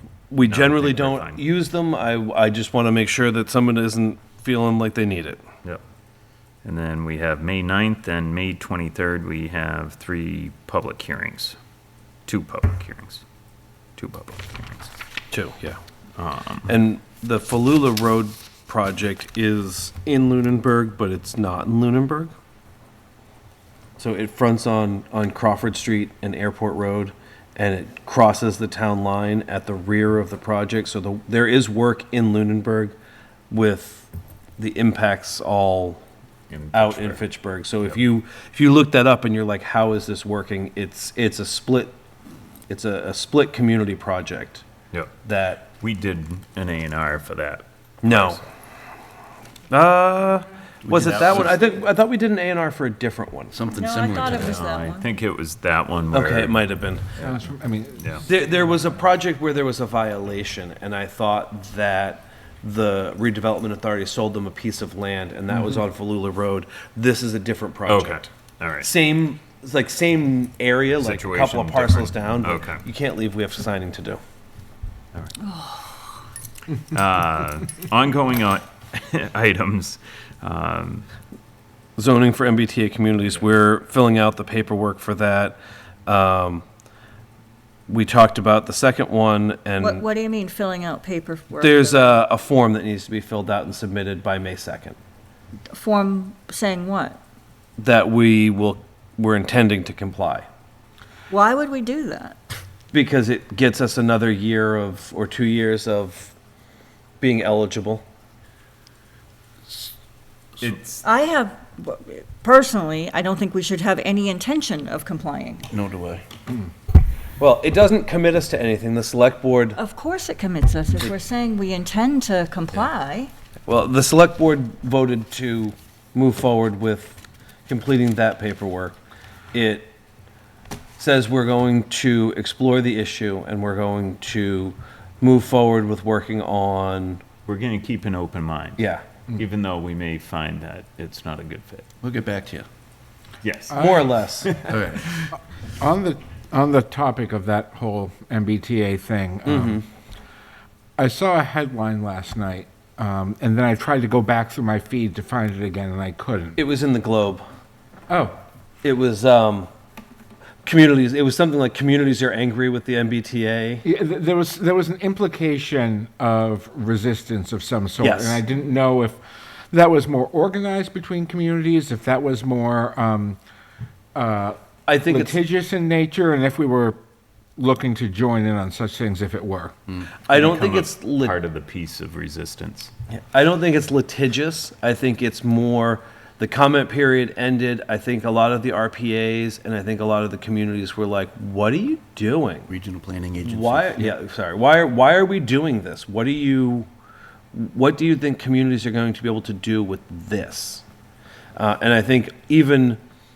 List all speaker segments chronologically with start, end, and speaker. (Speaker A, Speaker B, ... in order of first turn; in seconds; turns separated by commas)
Speaker A: 0.3-5.4, Speaker B: 0.5-1.4, Speaker B: 6.6-11.6, Speaker B: 12.3-13.2, Speaker B: 14.0-14.9, Speaker A: 15.3-15.8, Speaker B: 16.2-16.7, Speaker A: 16.7-22.3, Speaker A: 24.0-33.0, Speaker A: 33.5-36.0, Speaker B: 36.5-37.2, Speaker A: 36.7-41.9, Speaker A: 42.7-44.6, Speaker A: 45.2-45.7, Speaker B: 45.8-48.5, Speaker A: 48.0-48.4, Speaker A: 49.7-53.5, Speaker C: 50.8-51.8, Speaker B: 51.0-51.4, Speaker C: 53.5-54.6, Speaker D: 53.7-55.1, Speaker B: 54.2-56.6, Speaker A: 56.1-57.1, Speaker E: 57.2-58.4, Speaker B: 58.0-58.2, Speaker A: 58.2-68.3, Speaker B: 67.9-68.9, Speaker A: 68.8-74.2, Speaker B: 71.0-72.8, Speaker D: 75.4-76.1, Speaker B: 76.9-81.0, Speaker A: 82.0-86.6, Speaker A: 87.9-90.0, Speaker D: 89.8-92.2, Speaker A: 91.6-95.0, Speaker D: 95.7-97.2, Speaker A: 97.8-100.5, Speaker D: 101.3-102.4, Speaker A: 102.9-106.3, Speaker A: 107.2-108.0, Speaker A: 110.6-111.0, Speaker D: 111.0-115.7, Speaker C: 115.7-116.2, Speaker A: 117.4-119.8, Speaker D: 119.8-123.3, Speaker A: 123.7-127.2, Speaker A: 127.7-129.0, Speaker A: 129.5-129.9, Speaker A: 131.0-137.2, Speaker B: 137.4-141.9, Speaker A: 138.8-139.0, Speaker C: 142.0-142.7, Speaker B: 143.4-143.9, Speaker E: 143.7-144.1, Speaker A: 143.8-144.6, Speaker C: 144.7-145.1, Speaker E: 145.8-149.8, Speaker A: 149.4-149.8, Speaker E: 151.0-156.6, Speaker A: 156.6-157.4, Speaker E: 158.1-158.4, Speaker A: 158.8-159.7, Speaker A: 160.6-163.8, Speaker E: 163.8-169.2, Speaker A: 168.0-168.4, Speaker E: 169.7-173.4, Speaker E: 174.1-177.0, Speaker A: 174.9-175.3, Speaker E: 177.6-179.7, Speaker A: 180.3-181.4, Speaker B: 180.3-182.9, Speaker A: 183.1-192.7, Speaker C: 192.7-194.1, Speaker A: 193.4-196.9, Speaker A: 197.5-200.8, Speaker A: 201.6-203.0